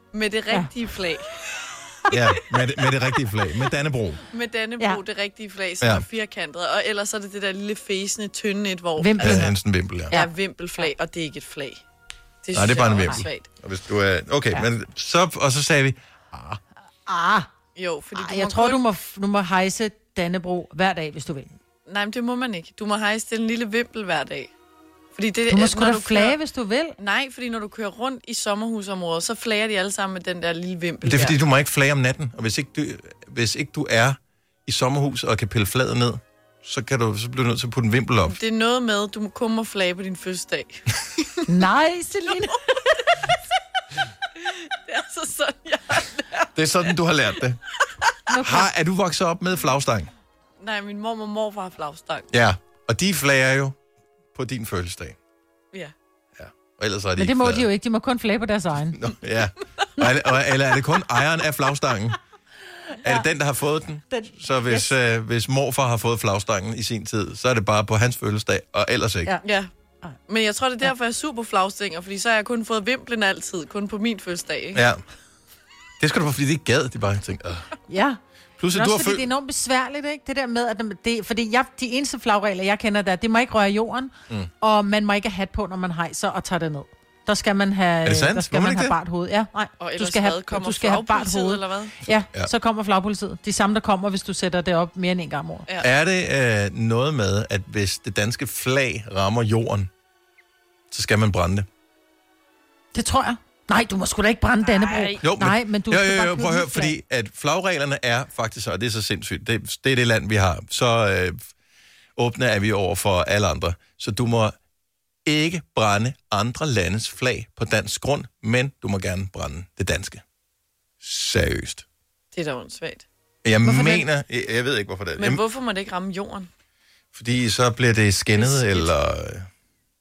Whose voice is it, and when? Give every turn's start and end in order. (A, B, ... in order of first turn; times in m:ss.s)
0:00.1-0:02.2 A
0:02.1-0:04.2 B
0:02.8-0:03.1 A
0:04.3-0:09.5 A
0:09.0-0:09.5 C
0:09.2-0:10.1 B
0:10.1-0:10.9 C
0:10.1-0:11.8 A
0:12.4-0:13.5 A
0:12.5-0:16.6 B
0:17.0-0:17.5 C
0:17.7-0:18.8 A
0:18.1-0:21.5 C
0:21.8-0:24.5 A
0:25.1-0:26.4 A
0:25.5-0:27.0 C
0:27.0-0:31.4 A
0:31.0-0:38.4 B
0:38.2-0:40.8 A
0:41.5-0:42.6 C
0:42.7-0:43.4 A
0:44.4-0:46.9 A
0:46.5-0:47.6 B
0:48.3-0:48.7 C
0:48.4-0:50.1 B
0:50.6-0:52.3 A
0:52.3-0:53.8 B
0:54.3-0:55.2 B
0:56.4-0:57.7 B
0:57.2-0:59.0 C
0:58.9-1:02.2 B
1:02.9-1:03.3 C
1:03.0-1:09.3 B
1:04.1-1:04.9 C
1:09.4-1:09.7 A
1:10.3-1:14.9 A
1:14.7-1:15.0 B
1:16.0-1:17.7 B
1:17.9-1:18.2 C
1:18.6-1:19.3 B
1:18.7-1:35.7 C
1:28.0-1:29.0 B
1:29.8-1:32.0 A
1:35.8-1:39.9 B
1:40.9-1:41.7 B
1:42.9-1:47.0 C
1:44.6-1:45.2 A
1:45.2-1:51.4 B
1:52.2-1:54.5 B
1:55.2-2:00.2 B
2:01.0-2:01.8 B
2:02.3-2:03.1 A
2:03.4-2:05.4 B
2:03.7-2:04.0 C
2:05.2-2:06.5 A
2:07.1-2:09.5 B
2:08.3-2:08.9 A